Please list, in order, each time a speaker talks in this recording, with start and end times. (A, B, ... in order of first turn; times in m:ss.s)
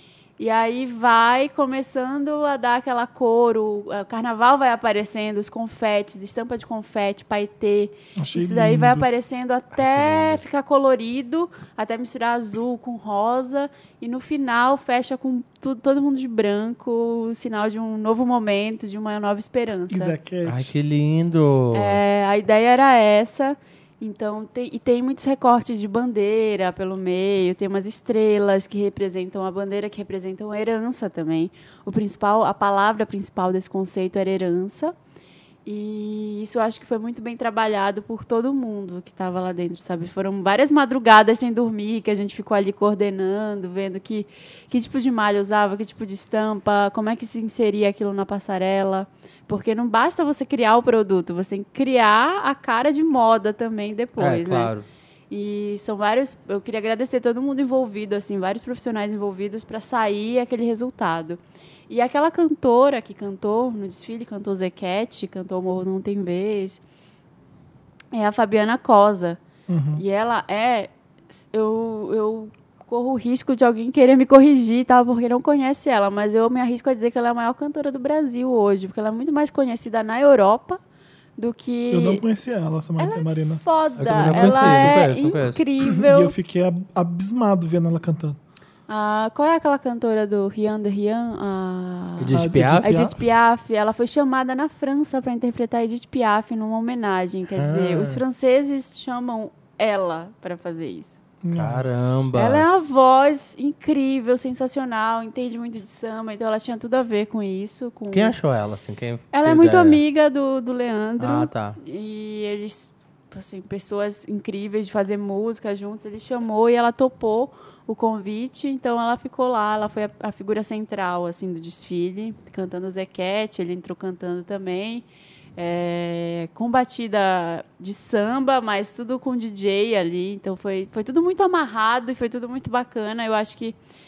0:00.4-0:20.1 A
0:08.2-0:09.0 B
0:09.7-0:10.4 C
0:19.9-0:20.7 B
0:20.4-0:22.0 C
0:21.7-0:34.9 A
0:35.6-0:54.7 A
0:54.2-0:54.8 C
0:55.3-1:06.8 A
1:08.1-1:09.4 A
1:09.7-1:10.0 B
1:09.9-1:20.8 A
1:21.4-1:22.2 A
1:21.9-1:25.1 B
1:23.0-1:26.3 A
1:24.0-1:25.6 C
1:25.8-1:28.4 B
1:28.9-1:41.2 A
1:32.2-1:33.0 C
1:32.3-1:33.2 B
1:37.6-1:38.2 C
1:41.4-1:42.3 B
1:41.5-1:42.6 C
1:42.3-1:48.3 A
1:48.1-1:50.0 C
1:49.3-2:05.0 A
1:51.2-1:51.8 C
2:05.6-2:13.8 A